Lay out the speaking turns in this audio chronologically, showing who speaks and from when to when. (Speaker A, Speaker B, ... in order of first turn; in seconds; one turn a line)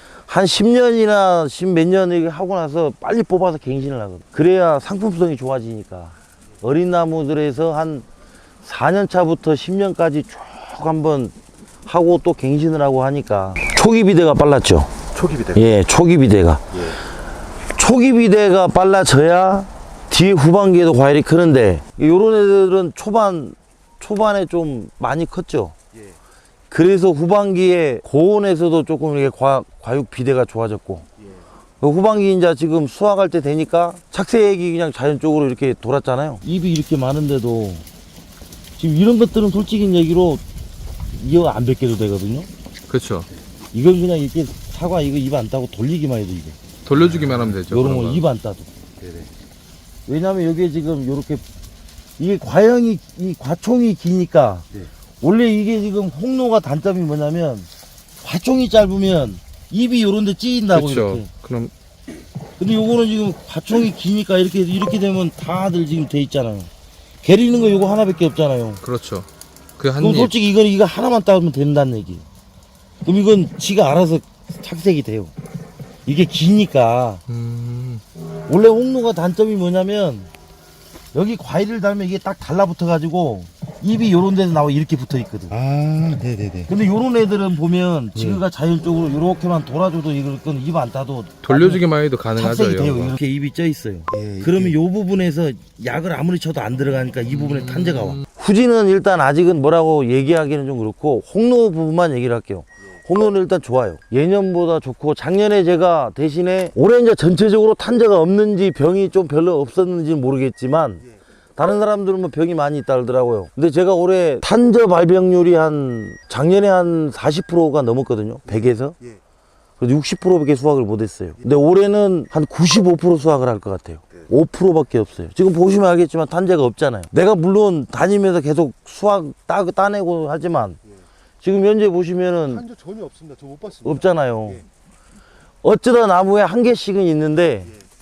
Speaker A: 0.3-8.1
Speaker A: 8.6-11.3
Speaker A: 11.8-14.9
Speaker B: 15.1-15.6
Speaker A: 15.5-17.0
Speaker A: 17.7-25.8
Speaker A: 26.7-31.1
Speaker A: 31.8-37.8
Speaker A: 38.8-40.4
Speaker A: 41.1-42.5
Speaker C: 42.9-43.3
Speaker A: 43.7-46.6
Speaker C: 46.8-48.2
Speaker A: 47.2-48.7
Speaker B: 49.0-49.3
Speaker A: 50.0-51.4
Speaker A: 52.2-54.7
Speaker A: 55.2-57.7
Speaker A: 58.2-61.3
Speaker C: 60.7-61.7
Speaker A: 62.6-66.7
Speaker A: 67.2-68.8
Speaker C: 68.8-69.3
Speaker C: 69.8-70.3
Speaker A: 70.0-72.2
Speaker A: 73.0-75.3
Speaker A: 76.0-77.2
Speaker C: 77.3-78.0
Speaker A: 78.5-80.3
Speaker A: 81.1-85.6
Speaker B: 85.5-86.7
Speaker A: 86.7-119.0
Speaker C: 91.4-93.1
Speaker B: 94.1-94.7
Speaker C: 97.5-98.2
Speaker A: 119.8-130.8
Speaker A: 131.4-132.7
Speaker B: 132.7-134.0
Speaker A: 133.8-134.6
Speaker A: 135.6-137.8